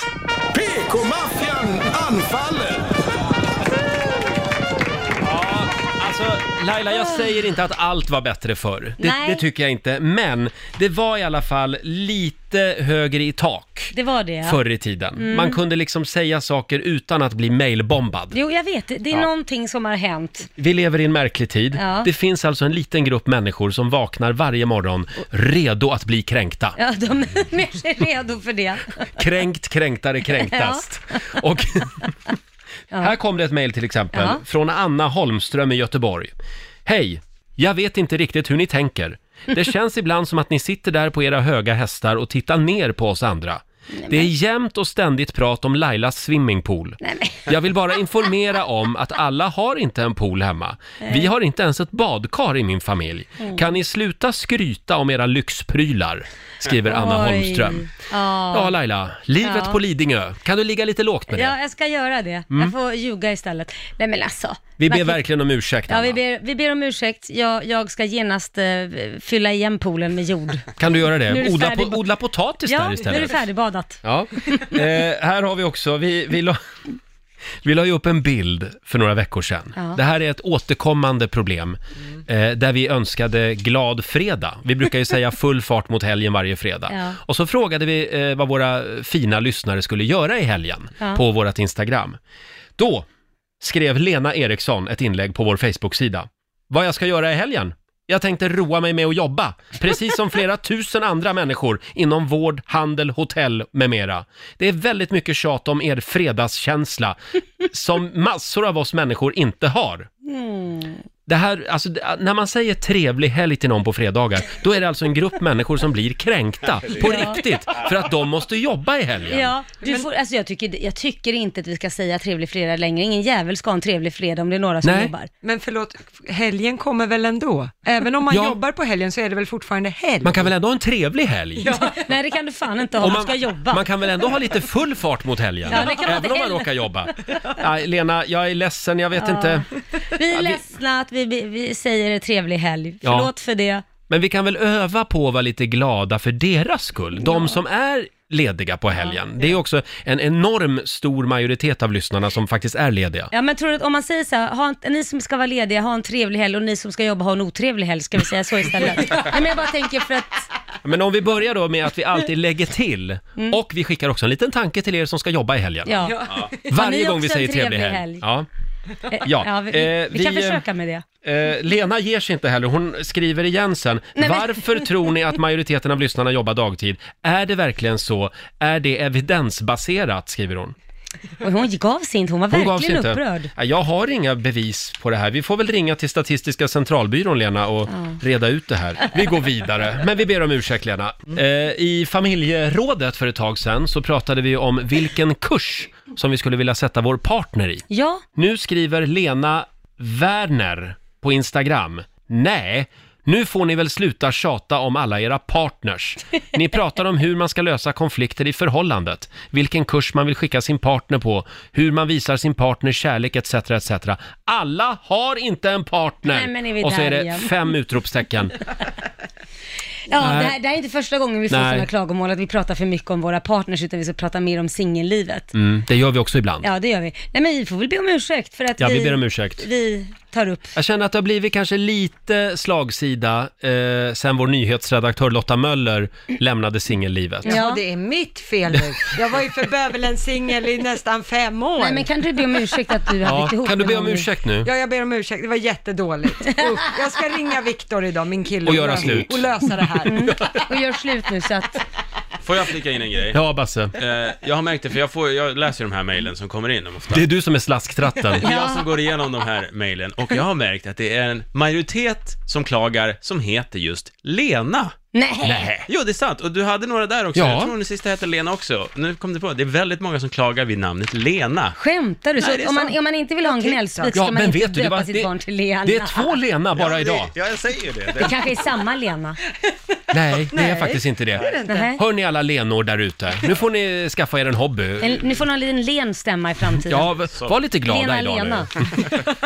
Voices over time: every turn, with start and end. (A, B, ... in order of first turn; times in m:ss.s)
0:00.5-0:02.9 A
0:05.2-0:18.4 B
0:09.0-0:09.4 C
0:13.9-0:14.6 C
0:15.2-0:15.6 C
0:18.3-0:20.5 C
0:20.6-0:26.8 B
0:21.7-0:22.1 C
0:26.8-0:29.1 C
0:29.2-0:32.1 B
0:30.3-0:30.9 C
0:33.0-0:36.3 B
0:34.1-0:34.4 C
0:36.9-0:57.9 B
0:44.0-0:44.3 C
0:47.0-0:47.5 C
0:51.0-0:51.3 C
0:56.9-0:58.8 C
0:58.5-1:01.6 B
0:59.4-0:59.8 C
1:01.3-1:05.2 C
1:04.8-1:06.2 B
1:05.9-1:12.0 C
1:10.8-1:13.4 B
1:12.7-1:14.8 C
1:14.0-1:16.6 B
1:17.6-1:32.2 B
1:26.9-1:27.2 C
1:32.8-1:33.1 B
1:33.6-1:50.1 B
1:50.3-1:51.0 C
1:51.3-1:59.5 B
1:57.0-1:57.4 C
1:59.3-2:05.3 C
2:04.8-2:05.1 B
2:05.4-2:10.5 D
2:08.3-2:08.6 B
2:10.2-2:11.7 B
2:11.6-2:12.0 D
2:11.7-2:13.8 C
2:13.0-2:19.6 B
2:15.7-2:17.5 C
2:19.2-2:23.8 C
2:20.3-2:20.6 B
2:23.0-2:23.3 B
2:24.1-2:33.3 B
2:27.3-2:27.6 C
2:33.3-2:40.5 C
2:40.8-2:46.1 B
2:45.9-2:48.2 C
2:46.7-2:48.5 B
2:49.1-2:51.0 C
2:49.2-2:50.6 B
2:51.2-3:00.7 B
2:54.2-2:55.0 C
3:01.4-3:03.5 C
3:02.5-3:38.6 B
3:17.9-3:18.2 C
3:36.3-3:37.5 C
3:40.1-3:45.5 C
3:40.2-3:40.6 B
3:41.5-3:41.9 B
3:45.6-3:46.7 B
3:46.6-3:50.7 C
3:48.8-3:49.7 B
3:50.8-3:57.6 B
3:57.4-3:57.8 C
3:57.4-4:02.1 D
4:01.8-4:04.3 C
4:03.2-4:04.7 B
4:04.6-4:10.3 D
4:08.6-4:09.7 B
4:10.0-4:11.8 C
4:12.4-4:13.4 E
4:13.3-4:14.0 B
4:14.0-4:17.2 E
4:17.1-4:18.5 B
4:18.4-4:25.0 E
4:18.4-4:18.9 C
4:25.1-4:25.7 C
4:25.4-4:25.9 B
4:25.9-4:31.8 E
4:27.4-4:27.7 B
4:31.8-4:36.4 C
4:32.4-4:32.9 E
4:32.6-4:34.2 D
4:34.1-4:35.3 B
4:35.8-4:37.3 B
4:36.8-4:38.5 E
4:38.2-4:39.4 C
4:40.1-4:45.2 B
4:40.5-4:41.9 D
4:41.7-4:42.0 C
4:45.0-4:47.1 C
4:46.9-4:49.2 B
4:47.3-4:47.6 E
4:47.8-4:48.7 C